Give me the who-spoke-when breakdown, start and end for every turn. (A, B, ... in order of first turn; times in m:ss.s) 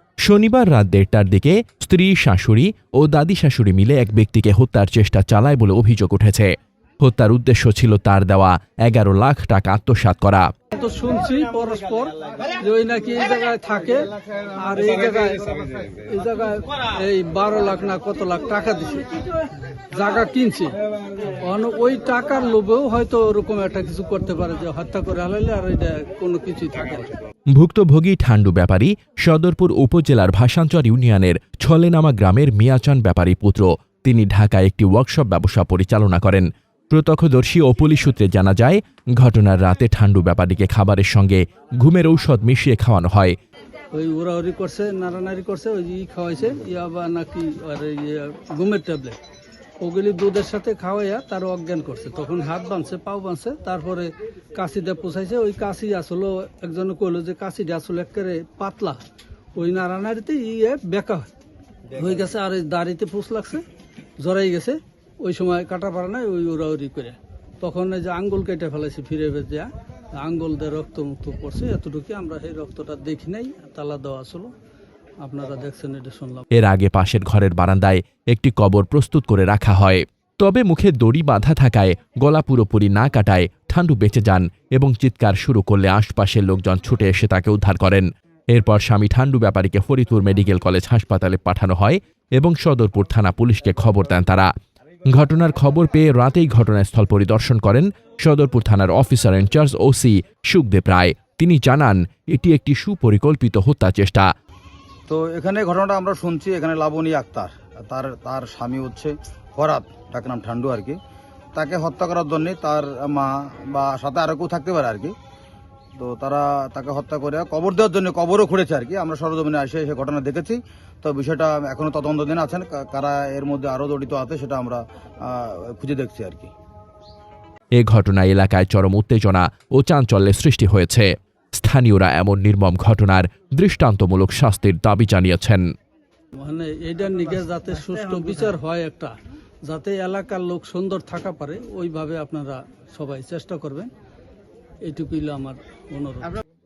0:00.3-0:06.5 A
0:07.0-0:10.5 A
0:10.7-0:19.2 B
0:19.9-0:20.7 B
0:21.4-0:27.1 B
0:27.6-0:43.4 A
0:43.9-0:49.2 B
0:49.8-0:59.0 B
0:59.6-1:01.3 B
1:01.9-1:03.6 B
1:04.2-1:14.5 B
1:15.2-1:16.5 B
1:16.5-1:34.5 A
1:35.1-1:44.3 A
1:45.1-1:51.0 C
1:51.6-1:55.1 C
1:56.0-2:06.5 C
2:07.8-2:15.6 A
2:16.4-2:19.2 B
2:19.7-2:23.9 B
2:24.8-2:26.4 B